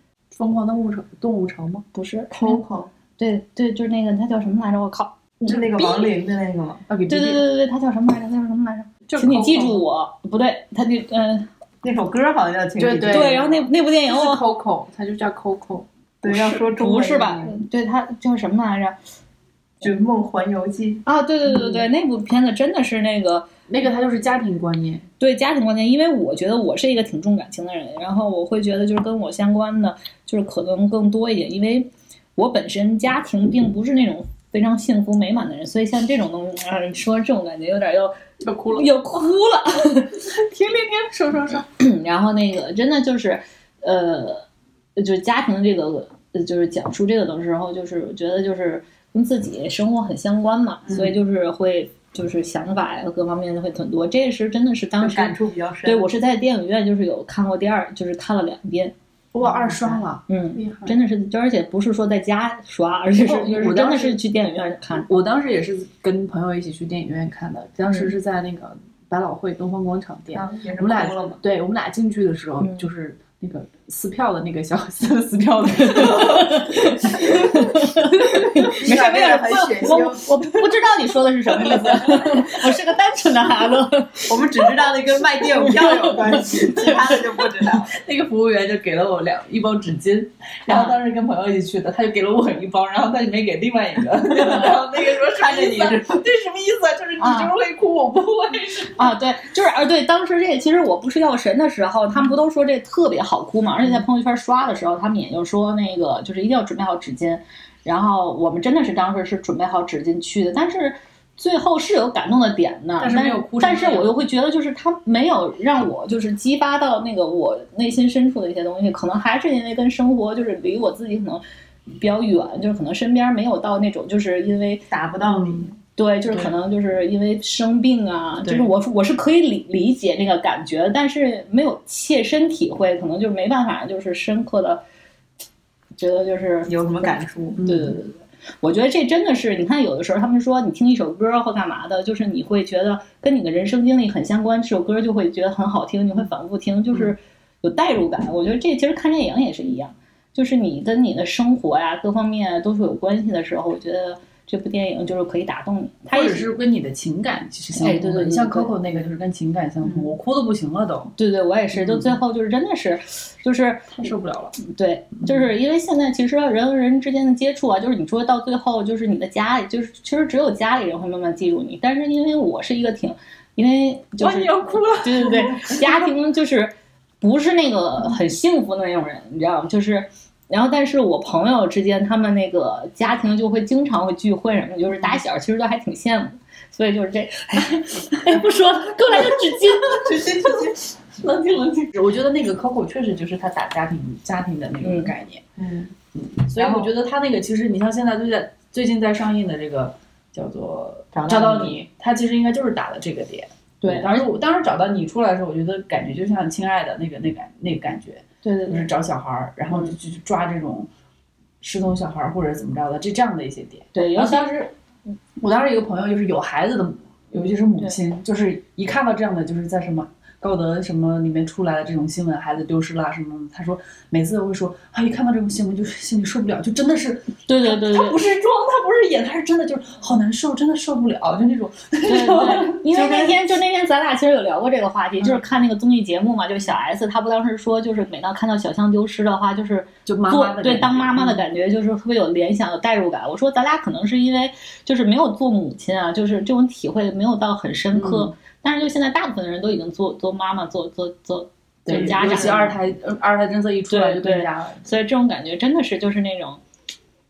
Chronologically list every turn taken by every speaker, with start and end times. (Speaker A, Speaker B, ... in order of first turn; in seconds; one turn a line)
Speaker A: 0.3-1.8
Speaker B: 1.9-6.1
Speaker C: 2.3-2.9
Speaker C: 5.5-6.8
Speaker A: 6.9-7.4
Speaker B: 7.1-11.5
Speaker A: 9.1-9.8
Speaker C: 11.8-13.4
Speaker A: 12.8-15.9
Speaker B: 13.1-14.4
Speaker C: 16.2-17.6
Speaker B: 16.2-18.9
Speaker C: 19.8-21.0
Speaker B: 21.0-23.5
Speaker A: 23.7-25.0
Speaker B: 25.2-38.2
Speaker A: 38.4-38.9
Speaker B: 38.7-40.2
Speaker A: 40.2-41.7
Speaker B: 41.8-44.4
Speaker B: 45.0-65.1
Speaker C: 55.0-56.0
Speaker A: 59.3-61.0
Speaker A: 63.1-64.2
Speaker A: 65.1-78.7
Speaker C: 70.3-71.4
Speaker B: 72.6-72.8
Speaker B: 76.0-87.2
Speaker C: 78.6-80.3
Speaker A: 81.9-82.4
Speaker C: 84.3-88.0
Speaker A: 87.9-99.1
Speaker C: 94.3-96.2
Speaker B: 97.2-97.5
Speaker B: 99.0-121.4
Speaker A: 113.0-114.1
Speaker B: 122.0-124.8
Speaker C: 124.9-125.7
Speaker A: 125.3-125.7
Speaker B: 126.0-134.8
Speaker A: 126.3-126.5
Speaker A: 128.4-128.7
Speaker B: 136.0-156.5
Speaker C: 136.7-137.6
Speaker A: 137.6-138.0
Speaker A: 156.1-161.1
Speaker B: 157.7-159.1
Speaker B: 161.2-163.9
Speaker A: 161.7-162.1
Speaker A: 163.9-164.6
Speaker B: 164.6-190.1
Speaker A: 174.2-176.1
Speaker A: 189.1-189.5
Speaker C: 189.9-190.8
Speaker A: 190.1-195.4
Speaker B: 194.8-195.1
Speaker C: 195.6-195.9
Speaker A: 196.1-210.9
Speaker C: 196.5-196.9
Speaker C: 201.1-201.8
Speaker B: 203.8-204.2
Speaker B: 208.4-208.9
Speaker B: 209.7-209.9
Speaker A: 211.6-214.7
Speaker B: 213.9-214.5
Speaker A: 215.4-233.3
Speaker B: 227.5-228.2
Speaker B: 232.1-252.8
Speaker A: 240.1-241.4
Speaker A: 247.9-248.3
Speaker A: 251.9-254.8
Speaker B: 253.9-256.6